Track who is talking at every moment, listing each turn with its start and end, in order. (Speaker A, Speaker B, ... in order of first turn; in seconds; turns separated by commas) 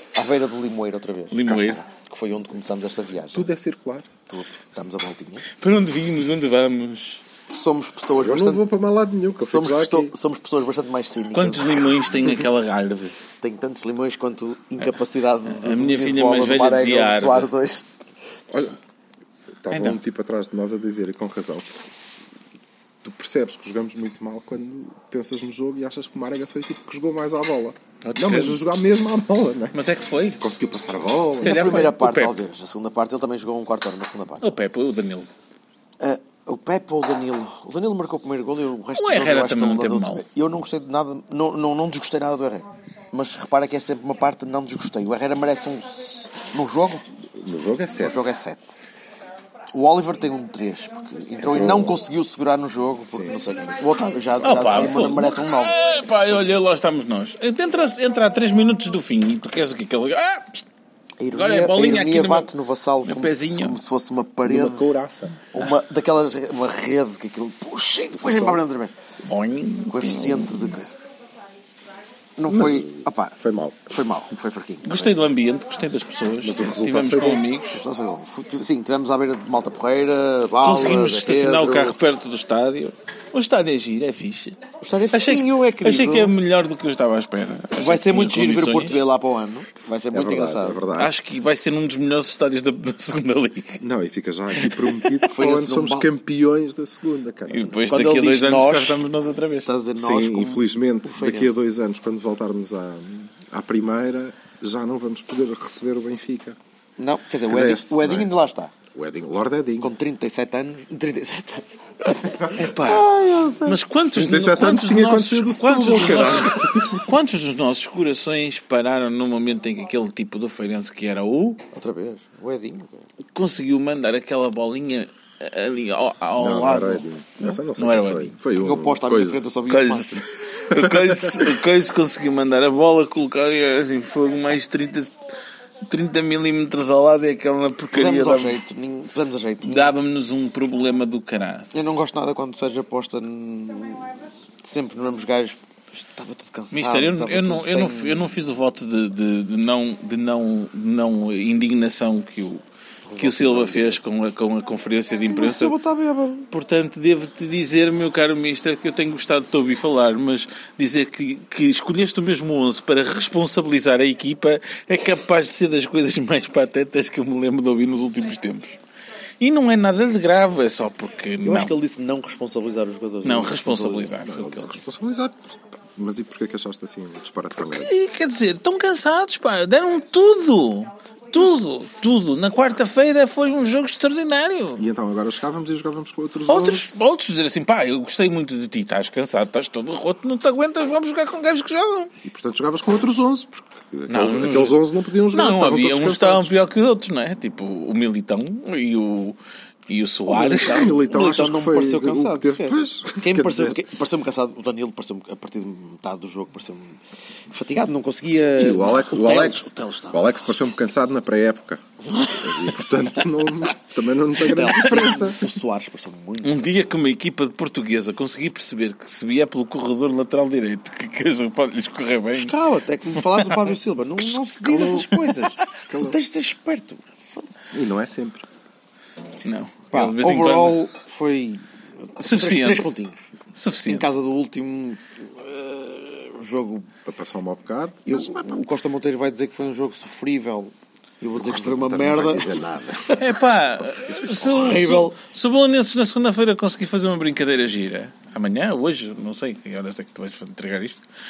Speaker A: 0.1-3.5, Speaker B: 1.3-1.8, Speaker C: 1.5-1.8, Speaker C: 3.3-4.1, Speaker A: 4.3-5.5, Speaker B: 5.6-7.2, Speaker A: 7.5-8.7, Speaker C: 8.2-10.1, Speaker A: 9.4-11.8, Speaker B: 11.3-13.2, Speaker A: 13.4-17.9, Speaker B: 15.5-17.5, Speaker C: 18.5-18.8, Speaker C: 19.6-21.7, Speaker B: 19.7-20.0, Speaker C: 23.0-29.8, Speaker B: 28.1-28.6, Speaker B: 29.7-30.4, Speaker C: 30.4-31.9, Speaker A: 31.4-34.5, Speaker B: 31.4-32.4, Speaker B: 34.4-35.3, Speaker A: 36.0-47.0, Speaker B: 39.0-40.2, Speaker C: 47.3-48.3, Speaker A: 48.0-48.8, Speaker A: 49.7-55.8, Speaker C: 51.4-52.0, Speaker C: 53.1-53.7, Speaker B: 54.4-60.6, Speaker A: 61.2-64.9, Speaker B: 61.3-62.5, Speaker B: 63.0-63.8, Speaker C: 64.4-65.4, Speaker A: 65.5-68.9, Speaker C: 68.2-68.6, Speaker B: 69.3-70.7, Speaker A: 69.9-71.0, Speaker A: 72.4-73.4, Speaker C: 72.5-73.9, Speaker A: 73.9-75.2, Speaker B: 74.8-77.8, Speaker C: 76.4-77.4, Speaker A: 77.7-82.0, Speaker B: 80.6-84.6, Speaker A: 84.8-86.4, Speaker B: 85.1-89.0, Speaker A: 87.8-90.8, Speaker C: 90.1-91.2, Speaker B: 91.0-93.8, Speaker C: 93.8-98.0, Speaker B: 94.6-95.1, Speaker A: 95.3-96.1, Speaker B: 97.5-99.7, Speaker A: 97.9-99.0, Speaker A: 99.6-101.6, Speaker C: 100.0-106.6, Speaker A: 107.0-108.7, Speaker C: 107.5-108.3, Speaker C: 108.9-109.9, Speaker A: 109.8-113.8, Speaker B: 112.5-113.1, Speaker B: 113.7-121.6, Speaker C: 114.1-117.1, Speaker A: 121.7-123.1, Speaker B: 123.3-128.3, Speaker C: 126.4-129.6, Speaker A: 128.6-130.2, Speaker B: 129.7-135.2, Speaker C: 130.7-131.4, Speaker B: 135.9-138.6, Speaker A: 137.9-140.0, Speaker B: 139.6-141.7, Speaker A: 141.7-144.1, Speaker A: 144.6-148.4, Speaker B: 146.7-152.6, Speaker A: 153.1-154.1, Speaker B: 153.2-155.8, Speaker A: 155.3-156.5, Speaker B: 156.5-168.8, Speaker B: 169.4-171.8, Speaker A: 171.4-174.2, Speaker B: 173.2-174.9, Speaker C: 174.2-175.4, Speaker C: 176.0-177.9, Speaker B: 177.6-184.8, Speaker C: 184.8-186.9, Speaker B: 186.5-192.1, Speaker C: 192.2-196.6, Speaker B: 194.1-200.9, Speaker C: 200.3-203.8, Speaker A: 200.3-207.0, Speaker A: 207.5-210.2, Speaker C: 208.3-211.8, Speaker A: 212.0-212.9, Speaker C: 212.4-215.5, Speaker A: 214.4-216.9, Speaker B: 216.4-222.5, Speaker A: 222.3-227.6, Speaker B: 223.2-223.7, Speaker B: 224.3-225.6, Speaker C: 225.9-226.2, Speaker C: 227.7-228.4, Speaker B: 229.4-230.9, Speaker A: 229.9-233.3, Speaker B: 232.2-232.9, Speaker B: 233.5-234.1, Speaker A: 233.9-236.9, Speaker C: 237.1-238.6, Speaker A: 238.1-243.3, Speaker C: 241.4-244.9, Speaker B: 243.2-251.0, Speaker A: 244.5-245.2